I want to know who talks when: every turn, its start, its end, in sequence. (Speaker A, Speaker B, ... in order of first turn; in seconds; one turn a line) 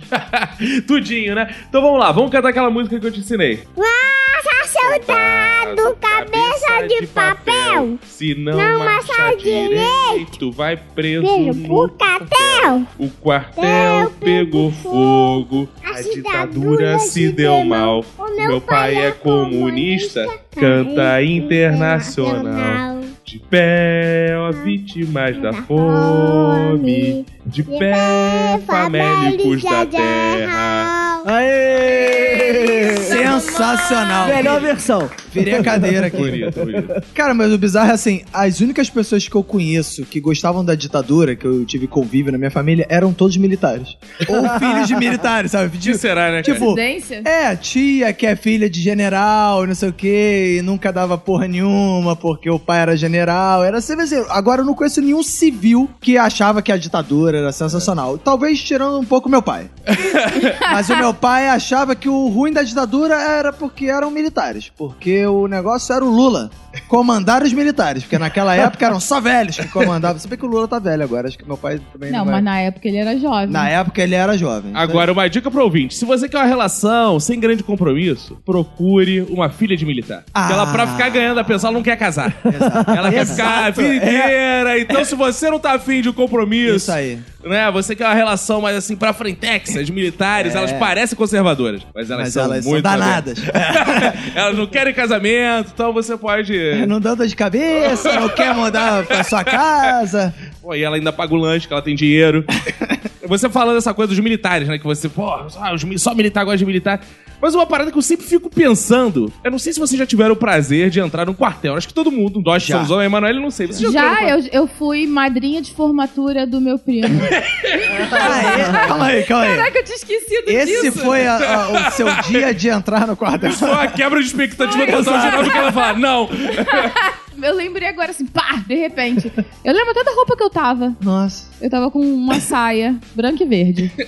Speaker A: 0.1-3.7
Speaker B: 3.8-8.0
Speaker A: 4.6-30.9
Speaker B: 8.5-10.2
Speaker B: 11.2-12.9
Speaker B: 13.6-23.1
Speaker B: 25.3-31.3
Speaker C: 31.2-33.2
Speaker B: 31.8-34.7
Speaker D: 33.0-34.7
Speaker C: 34.2-37.0
Speaker D: 35.3-36.4
Speaker A: 36.1-37.0
Speaker D: 37.1-72.5
Speaker A: 45.8-46.7
Speaker E: 46.5-47.3
Speaker A: 59.9-60.6
Speaker E: 60.5-60.9
Speaker E: 72.1-73.7
Speaker D: 73.5-75.1
Speaker A: 74.7-96.9
Speaker D: 80.3-81.8
Speaker D: 82.4-84.4
Speaker C: 82.6-82.9
Speaker D: 86.6-87.3
Speaker D: 90.3-90.9
Speaker D: 92.1-94.3
Speaker D: 96.7-100.4
Speaker A: 97.9-99.5
Speaker A: 100.6-102.5
Speaker A: 103.2-114.4
Speaker D: 112.6-112.9
Speaker E: 113.8-121.2
Speaker A: 117.2-118.5
Speaker C: 117.9-118.9
Speaker D: 118.1-119.7
Speaker D: 120.5-124.0
Speaker A: 121.1-122.5
Speaker A: 123.4-127.0
Speaker E: 124.6-125.9
Speaker D: 124.7-125.6
Speaker E: 126.5-131.0
Speaker D: 131.0-131.5
Speaker E: 131.6-134.0